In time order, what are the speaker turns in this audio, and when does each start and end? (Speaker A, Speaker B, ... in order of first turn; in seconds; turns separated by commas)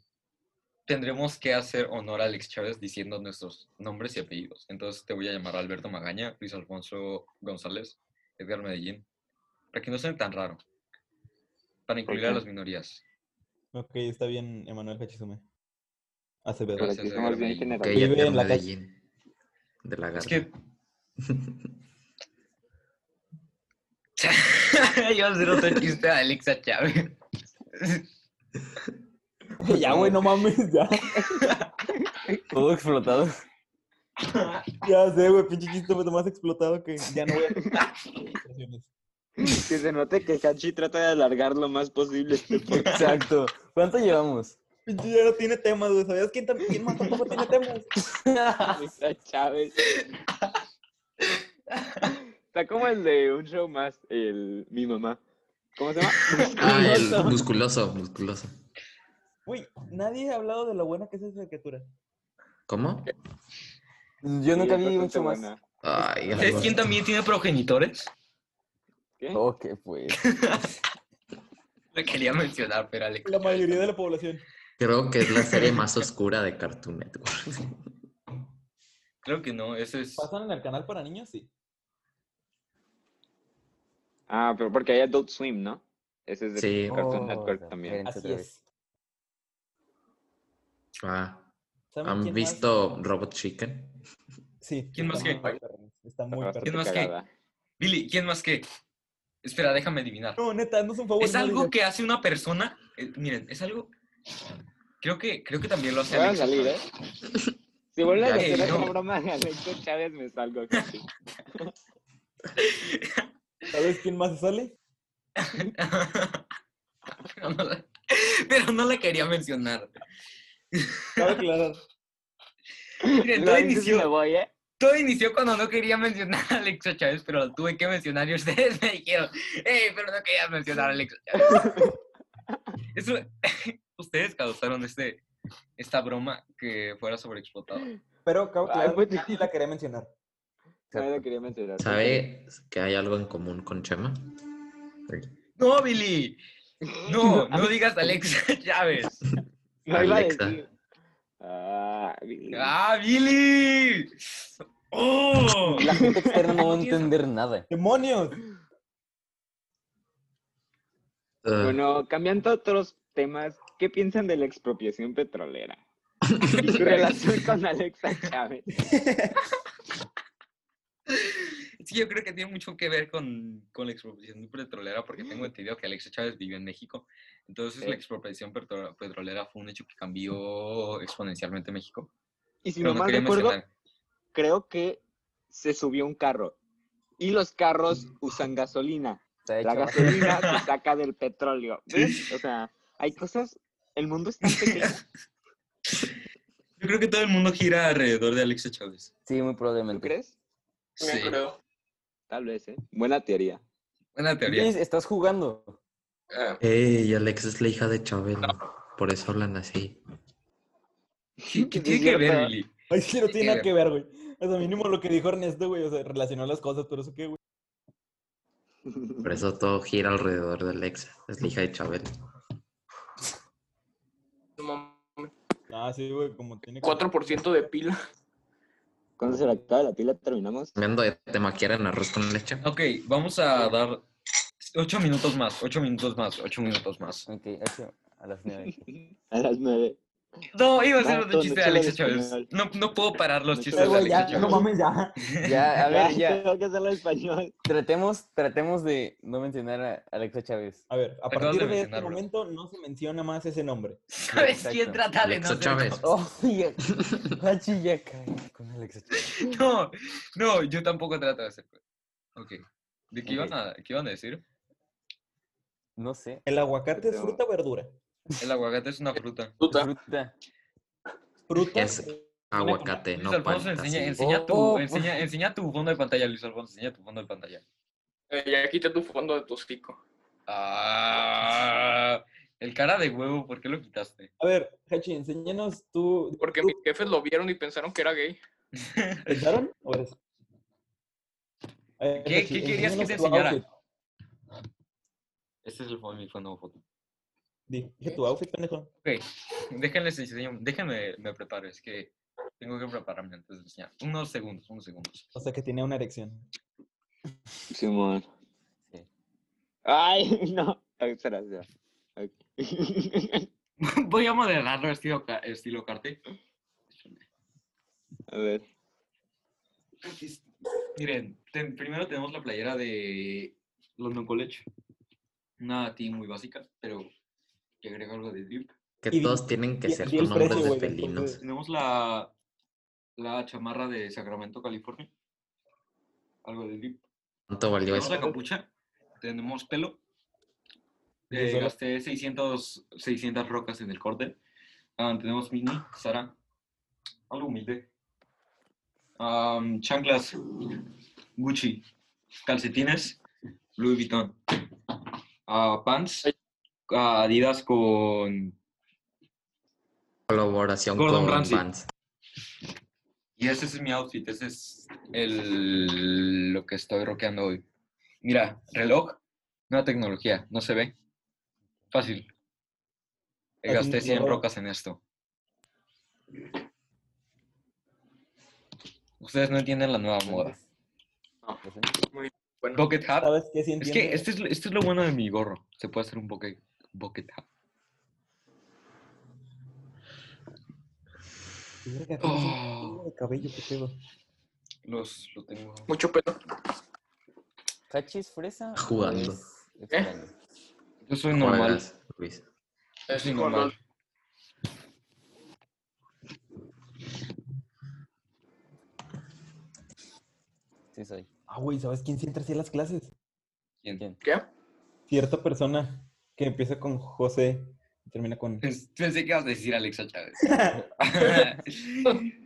Speaker A: 0.9-9.0, Speaker A: 9.7-10.6, Speaker A: 11.9-13.0, Speaker B: 12.1-12.4, Speaker C: 13.7-15.4, Speaker C: 16.4-16.9, Speaker A: 16.8-17.8, Speaker B: 16.8-18.1, Speaker D: 17.8-19.0, Speaker C: 17.9-18.7, Speaker D: 19.8-20.5, Speaker A: 20.1-20.5, Speaker D: 21.3-21.5, Speaker A: 24.2-27.1, Speaker A: 27.8-28.0, Speaker C: 29.6-31.4, Speaker A: 29.8-30.1, Speaker A: 31.4-31.7, Speaker B: 31.9-32.5, Speaker E: 32.5-33.3, Speaker A: 34.2-34.6, Speaker C: 34.8-38.9, Speaker B: 39.4-43.0, Speaker E: 42.7-44.6, Speaker C: 44.9-47.9, Speaker E: 48.2-48.8, Speaker B: 48.6-49.7, Speaker B: 52.5-55.2, Speaker B: 55.8-57.4, Speaker D: 56.5-58.5, Speaker C: 59.5-61.9, Speaker D: 62.7-63.1, Speaker E: 64.2-65.5, Speaker B: 64.5-65.6, Speaker D: 65.8-67.0, Speaker A: 66.4-68.1, Speaker E: 69.3-70.2, Speaker A: 70.2-70.7, Speaker A: 71.9-73.9, Speaker C: 73.2-74.4, Speaker D: 74.8-77.8, Speaker A: 75.4-75.8, Speaker A: 79.2-80.3, Speaker C: 80.2-81.5, Speaker B: 84.3-88.0, Speaker D: 86.5-87.1, Speaker E: 86.9-88.5, Speaker C: 88.0-88.6, Speaker D: 91.0-91.5, Speaker C: 91.9-92.6, Speaker D: 92.0-94.0, Speaker C: 94.6-96.9, Speaker A: 94.9-95.5, Speaker B: 96.3-97.3, Speaker A: 96.7-97.1, Speaker A: 97.8-98.7, Speaker A: 99.4-100.4, Speaker C: 100.4-101.7, Speaker A: 101.2-103.9, Speaker A: 105.0-106.8, Speaker B: 106.1-106.8, Speaker B: 107.9-111.7, Speaker D: 108.1-108.9, Speaker A: 108.3-108.9, Speaker A: 112.6-113.3, Speaker C: 113.7-114.7, Speaker A: 115.4-116.4, Speaker A: 117.2-119.9, Speaker A: 120.7-121.2, Speaker C: 121.2-121.8, Speaker B: 123.0-124.5, Speaker A: 123.0-124.1, Speaker A: 124.8-131.7, Speaker B: 131.3-131.9, Speaker A: 132.9-135.2, Speaker A: 135.8-137.9, Speaker C: 138.2-140.1, Speaker B: 138.6-139.4, Speaker B: 140.9-142.2, Speaker E: 140.9-141.2, Speaker D: 141.8-144.3, Speaker A: 145.6-146.4, Speaker B: 147.0-147.7, Speaker A: 147.0-149.2, Speaker B: 149.8-150.7, Speaker D: 149.9-150.6, Speaker B: 151.4-152.7, Speaker A: 152.5-154.2, Speaker A: 154.9-155.9, Speaker B: 155.8-156.6, Speaker E: 155.8-157.7, Speaker A: 156.6-157.1, Speaker C: 157.7-158.4, Speaker D: 161.4-161.8, Speaker B: 161.6-165.8, Speaker D: 166.4-166.7, Speaker B: 166.5-168.7, Speaker A: 166.8-167.1, Speaker C: 168.8-169.4, Speaker A: 171.1-182.1, Speaker B: 182.6-183.6, Speaker A: 182.8-183.7, Speaker B: 184.3-186.5, Speaker B: 187.2-195.0, Speaker E: 189.4-190.3, Speaker A: 190.1-190.6, Speaker A: 191.9-192.3, Speaker A: 194.4-195.0, Speaker A: 196.8-199.1, Speaker E: 199.2-200.1, Speaker B: 199.9-200.3, Speaker A: 201.0-201.4, Speaker F: 201.0-201.6, Speaker B: 202.3-203.6, Speaker A: 204.2-204.7, Speaker E: 204.4-205.8, Speaker F: 206.3-206.6, Speaker D: 206.6-210.0, Speaker B: 211.4-212.5, Speaker A: 211.5-212.7, Speaker C: 212.9-217.4, Speaker A: 213.3-213.7, Speaker D: 219.2-222.1, Speaker F: 224.6-225.3, Speaker C: 225.7-227.4, Speaker F: 226.8-228.0, Speaker B: 229.2-230.7, Speaker D: 230.8-232.6, Speaker A: 232.6-234.0, Speaker A: 234.6-237.3, Speaker E: 237.3-238.8, Speaker B: 239.3-240.0, Speaker A: 240.5-244.7, Speaker B: 241.0-242.5, Speaker B: 243.5-244.6, Speaker C: 243.7-245.6, Speaker E: 245.4-246.4, Speaker B: 245.8-247.5, Speaker E: 247.6-250.8, Speaker C: 250.9-254.0, Speaker A: 251.3-252.2, Speaker A: 254.1-256.0, Speaker E: 254.3-255.0, Speaker D: 255.2-256.1, Speaker E: 256.0-259.4, Speaker A: 259.3-261.8, Speaker A: 262.4-264.4, Speaker E: 263.2-263.5, Speaker E: 266.0-266.4, Speaker C: 266.4-267.9, Speaker B: 266.9-267.4, Speaker A: 268.4-269.6, Speaker F: 269.6-269.9, Speaker E: 269.6-270.3, Speaker C: 271.5-272.2, Speaker D: 271.6-274.2, Speaker A: 273.0-277.6, Speaker E: 274.2-275.1, Speaker F: 278.3-280.0, Speaker A: 280.5-284.3, Speaker C: 284.4-286.8, Speaker F: 286.4-288.4, Speaker A: 288.8-289.5, Speaker C: 289.3-290.2, Speaker C: 292.0-293.6, Speaker A: 292.1-293.6, Speaker A: 295.6-296.8, Speaker C: 297.7-298.9, Speaker A: 299.0-305.3, Speaker C: 305.3-306.5, Speaker B: 307.7-308.3, Speaker B: 309.9-311.6, Speaker B: 312.2-313.5, Speaker A: 313.8-316.2, Speaker A: 316.9-317.2, Speaker B: 318.3-318.6, Speaker A: 320.0-320.4, Speaker A: 320.9-324.6, Speaker A: 325.6-327.1, Speaker A: 327.8-328.7, Speaker D: 329.0-331.4, Speaker C: 329.1-331.4, Speaker A: 330.3-330.7, Speaker A: 331.4-332.3, Speaker A: 333.2-335.1, Speaker A: 336.4-337.0, Speaker D: 337.5-338.3, Speaker A: 337.9-338.7, Speaker A: 339.2-340.0, Speaker C: 341.3-341.7, Speaker A: 341.3-344.4, Speaker A: 345.0-346.3, Speaker A: 347.3-347.9, Speaker A: 349.2-350.8, Speaker A: 351.4-351.9, Speaker A: 352.4-353.2, Speaker A: 353.8-354.4, Speaker A: 355.5-356.3, Speaker A: 356.9-358.6, Speaker D: 360.3-361.9, Speaker A: 361.0-361.6, Speaker A: 363.4-367.6, Speaker A: 368.2-369.2, Speaker A: 369.7-370.9, Speaker A: 371.9-372.3, Speaker A: 373.6-375.0, Speaker C: 373.6-374.4, Speaker A: 379.2-380.5, Speaker E: 380.2-380.6, Speaker E: 381.6-381.9, Speaker F: 382.1-382.9, Speaker A: 382.7-387.4, Speaker C: 383.2-384.2, Speaker C: 391.8-393.9, Speaker A: 392.2-393.0, Speaker A: 394.9-395.9, Speaker F: 395.9-396.4, Speaker E: 397.9-400.3, Speaker D: 398.8-399.4, Speaker F: 399.9-400.1, Speaker A: 401.1-401.8, Speaker D: 401.3-402.4, Speaker F: 403.1-403.7, Speaker A: 403.1-403.7, Speaker E: 410.9-411.3, Speaker C: 411.5-413.1, Speaker F: 414.2-414.5, Speaker C: 415.1-418.6, Speaker A: 418.6-422.3, Speaker C: 420.4-420.8